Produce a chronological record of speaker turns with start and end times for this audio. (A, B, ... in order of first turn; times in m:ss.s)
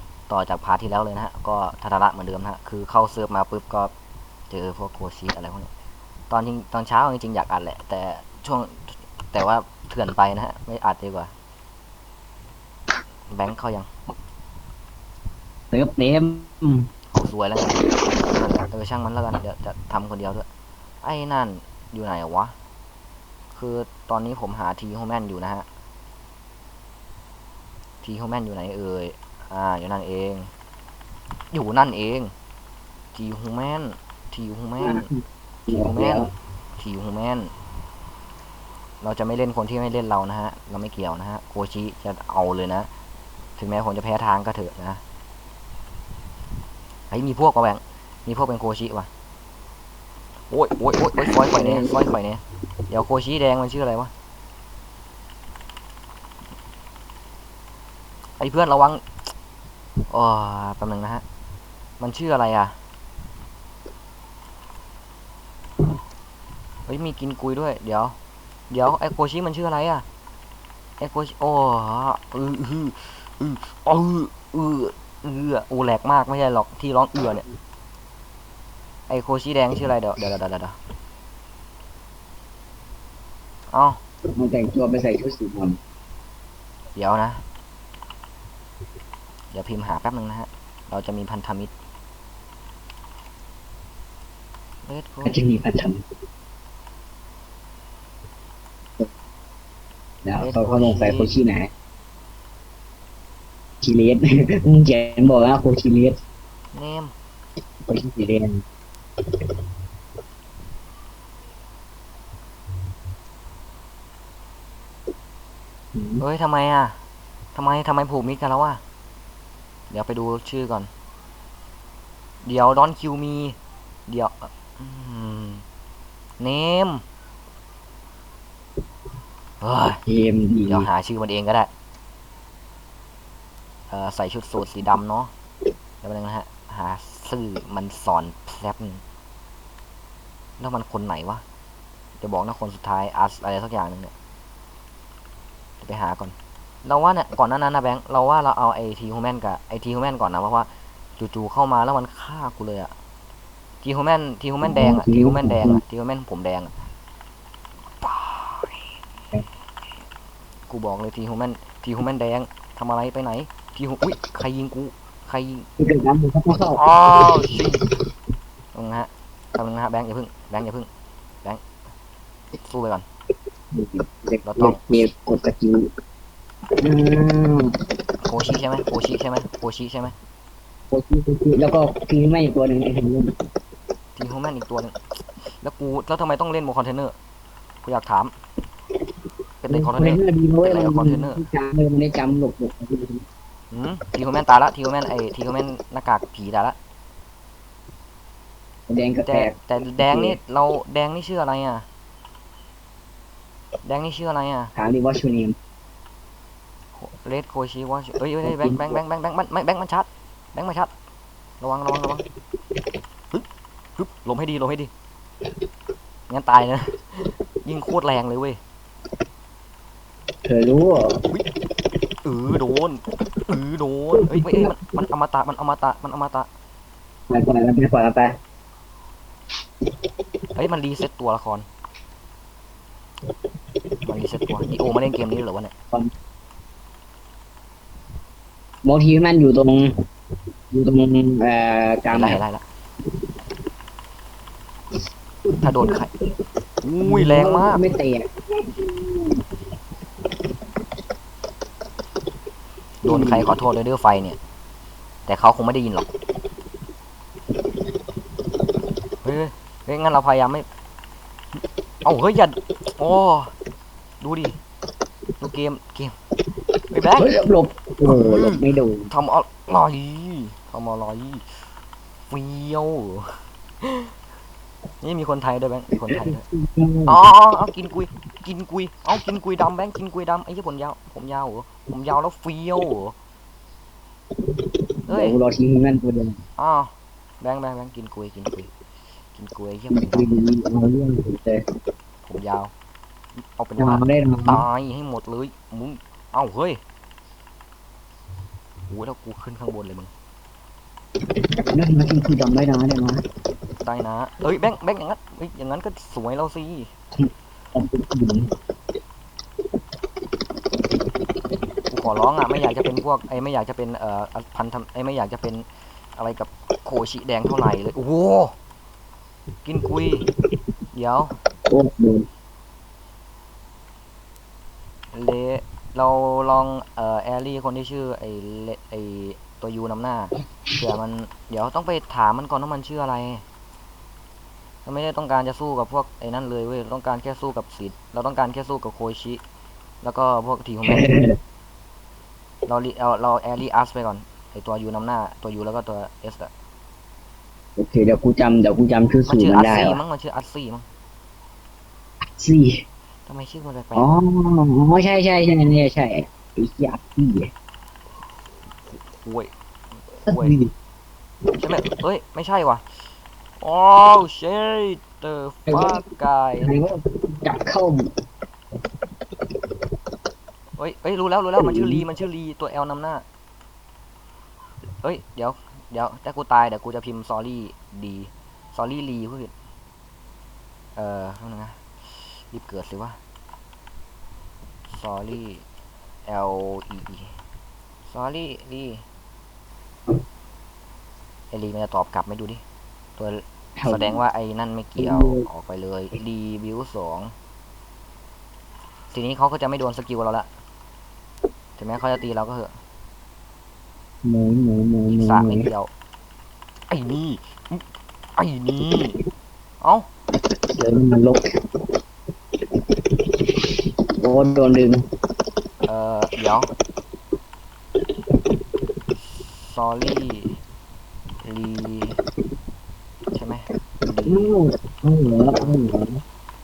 0:00.3-0:03.9 A
0:04.5-0:05.7 A
0:06.3-0:11.3 A
0:13.3-0:13.9 A
0:15.7-0:16.9 B
0:17.1-0:20.5 A
0:21.0-0:22.5 A
0:23.5-0:25.7 A
0:28.0-0:30.5 A
0:31.5-0:32.3 A
0:33.1-0:35.1 A
0:34.8-0:36.3 B
0:35.7-0:37.5 A
0:39.0-0:42.9 A
0:43.6-0:45.0 A
0:47.1-0:49.1 A
0:50.5-0:54.1 A
0:51.2-0:51.9 B
0:58.4-0:59.0 A
1:00.1-1:01.2 A
1:02.0-1:02.8 A
1:06.9-1:08.2 A
1:08.7-1:10.0 A
1:11.0-1:17.4 A
1:19.1-1:20.8 A
1:23.7-1:24.0 A
1:24.3-1:25.8 B
1:27.0-1:27.4 A
1:29.5-1:31.7 A
1:34.9-1:35.4 A
1:35.2-1:36.0 B
1:40.2-1:41.7 B
1:40.4-1:41.3 A
1:43.8-1:46.2 B
1:46.7-1:47.1 A
1:47.9-1:48.6 B
1:56.0-1:56.2 B
1:56.2-1:57.0 A
1:57.6-1:58.8 A
1:59.9-2:00.9 A
2:02.4-2:03.6 A
2:04.1-2:05.6 A
2:06.4-2:07.0 A
2:09.6-2:10.0 A
2:10.1-2:10.9 B
2:10.7-2:11.7 A
2:13.9-2:15.3 A
2:16.0-2:19.0 A
2:20.6-2:21.4 A
2:22.2-2:24.1 A
2:25.8-2:32.9 A
2:33.8-2:36.7 A
2:34.6-2:35.8 B
2:38.0-2:38.8 A
2:40.7-2:45.7 A
2:45.8-2:46.8 B
2:46.7-2:47.8 A
2:48.7-2:50.9 A
2:52.6-2:53.0 A
2:53.7-2:55.9 B
2:54.4-2:54.8 A
2:56.8-2:57.8 B
2:58.2-3:00.1 A
3:00.9-3:03.4 B
3:04.2-3:07.2 A
3:07.8-3:08.3 A
3:09.6-3:11.4 A
3:09.7-3:13.3 B
3:13.7-3:16.8 A
3:18.9-3:20.4 B
3:19.2-3:21.9 A
3:23.8-3:24.7 A
3:24.8-3:25.6 B
3:27.0-3:30.9 A
3:28.4-3:29.0 B
3:31.6-3:32.2 A
3:34.0-3:34.9 A
3:36.3-3:38.6 A
3:40.4-3:41.3 B
3:42.2-3:46.5 A
3:44.2-3:45.1 B
3:47.3-3:48.4 B
3:50.6-3:51.7 A
3:54.0-3:55.7 A
3:58.8-3:59.9 B
4:00.7-4:02.4 B
4:02.1-4:02.6 A
4:05.4-4:06.1 B
4:05.6-4:06.1 A
4:06.8-4:07.8 A
4:07.0-4:09.4 B
4:13.0-4:14.4 A
4:13.0-4:13.5 B
4:15.3-4:16.1 A
4:19.2-4:20.7 A
4:22.0-4:23.5 A
4:24.2-4:24.6 A
4:25.4-4:26.1 A
4:26.9-4:27.3 A
4:27.2-4:29.1 B
4:28.0-4:31.6 A
4:32.3-4:34.1 A
4:35.0-4:36.4 A
4:36.1-4:37.2 B
4:37.1-4:43.2 A
4:44.5-4:46.4 B
4:45.1-4:45.4 A
4:46.6-4:48.7 A
4:49.3-4:50.3 A
4:49.9-4:51.6 B
4:52.2-4:52.7 A
4:53.6-4:56.8 A
4:53.8-4:54.6 B
4:58.9-5:00.1 A
5:01.7-5:03.2 B
5:03.8-5:06.9 A
5:07.2-5:08.5 B
5:11.9-5:18.6 A
5:19.6-5:20.3 A
5:20.9-5:21.3 A
5:21.7-5:22.3 B
5:25.1-5:33.4 A
5:34.8-5:39.4 A
5:40.0-5:41.1 A
5:40.9-5:41.4 B
5:42.7-5:46.5 A
5:47.8-5:50.0 B
5:49.3-5:50.9 A
5:52.4-5:52.8 B
5:53.3-5:54.2 A
5:54.0-5:57.5 B
5:59.2-5:59.5 A
6:00.1-6:00.6 A
6:00.3-6:00.7 B
6:01.6-6:02.8 A
6:03.6-6:06.7 A
6:05.7-6:06.0 B
6:06.6-6:08.1 B
6:10.8-6:13.2 A
6:11.6-6:12.1 B
6:15.0-6:19.5 A
6:21.0-6:23.2 A
6:24.9-6:25.7 A
6:26.3-6:27.3 A
6:28.1-6:29.0 A
6:31.5-6:32.6 A
6:33.2-6:37.3 A
6:33.8-6:34.2 B
6:35.0-6:35.5 B
6:39.1-6:40.5 A
6:41.8-6:42.7 A
6:44.2-6:45.7 B
6:45.1-6:45.9 A
6:46.9-6:47.8 A
6:48.4-6:49.2 A
6:49.8-6:50.1 A
6:50.7-6:51.6 B
6:53.1-6:55.0 B
6:55.9-6:56.7 A
6:59.4-7:00.6 A
7:01.4-7:02.2 A
7:03.3-7:04.6 A
7:04.2-7:06.2 B